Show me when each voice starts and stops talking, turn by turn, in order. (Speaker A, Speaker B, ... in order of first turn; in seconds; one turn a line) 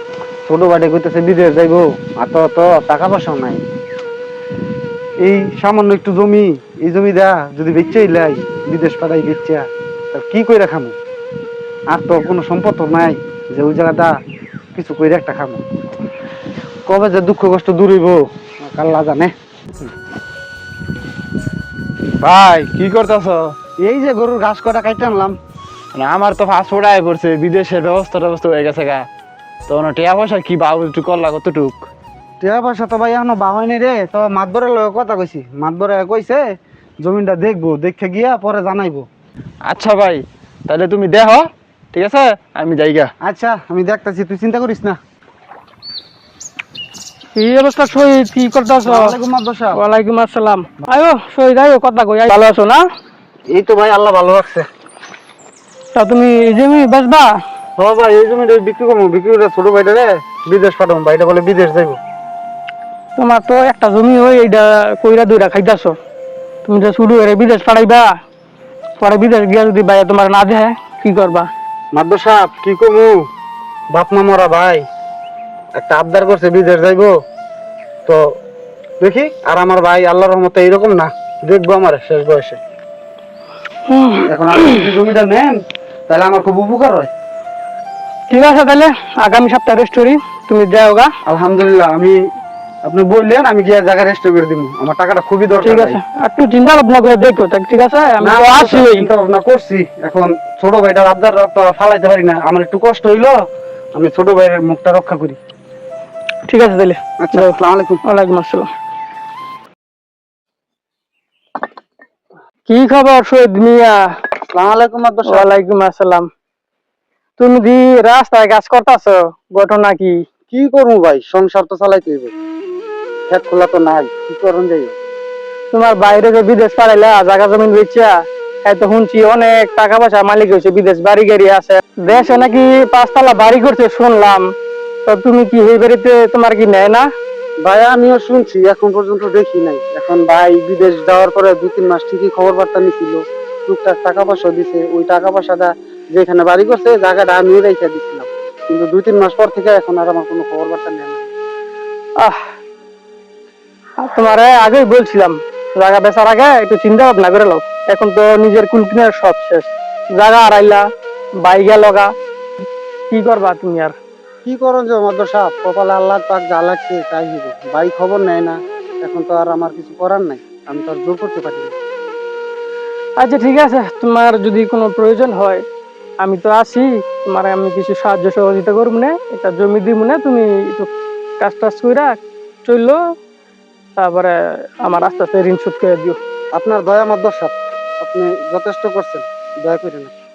Speaker A: 0.5-3.6
Speaker A: 5.2-10.9
Speaker A: 11.9-14.1
Speaker A: 14.8-15.6
Speaker A: 16.9-19.3
Speaker B: 22.2-23.5
Speaker A: 23.8-25.4
Speaker B: 25.9-29.0
Speaker B: 29.7-31.8
Speaker A: 32.4-36.4
Speaker A: 37.0-39.0
Speaker B: 39.7-43.1
Speaker A: 43.2-45.0
Speaker C: 47.4-49.1
Speaker A: 48.8-49.8
Speaker C: 49.7-52.8
Speaker A: 53.5-54.7
Speaker C: 55.9-57.3
Speaker A: 57.8-62.0
Speaker C: 63.2-66.0
Speaker C: 66.6-68.1
Speaker C: 69.0-71.5
Speaker A: 71.9-73.2
Speaker A: 73.9-74.8
Speaker A: 75.8-77.1
Speaker A: 79.0-82.6
Speaker C: 83.9-84.8
Speaker A: 84.2-85.5
Speaker A: 86.1-87.1
Speaker C: 88.3-91.1
Speaker A: 91.2-92.1
Speaker A: 92.9-96.0
Speaker C: 95.6-99.1
Speaker A: 98.2-103.3
Speaker A: 104.0-105.4
Speaker C: 106.5-107.5
Speaker A: 107.2-108.0
Speaker C: 108.0-108.7
Speaker C: 112.7-114.0
Speaker A: 114.5-115.5
Speaker C: 115.2-116.3
Speaker C: 117.4-120.2
Speaker A: 120.5-122.3
Speaker A: 123.3-125.0
Speaker C: 125.7-134.5
Speaker C: 135.1-137.1
Speaker A: 137.7-151.3
Speaker C: 154.0-160.8
Speaker C: 161.4-162.1
Speaker C: 163.1-163.9
Speaker A: 164.4-171.8
Speaker C: 173.2-175.6
Speaker C: 176.2-182.1
Speaker C: 182.7-183.0
Speaker C: 184.0-186.2
Speaker A: 186.6-190.1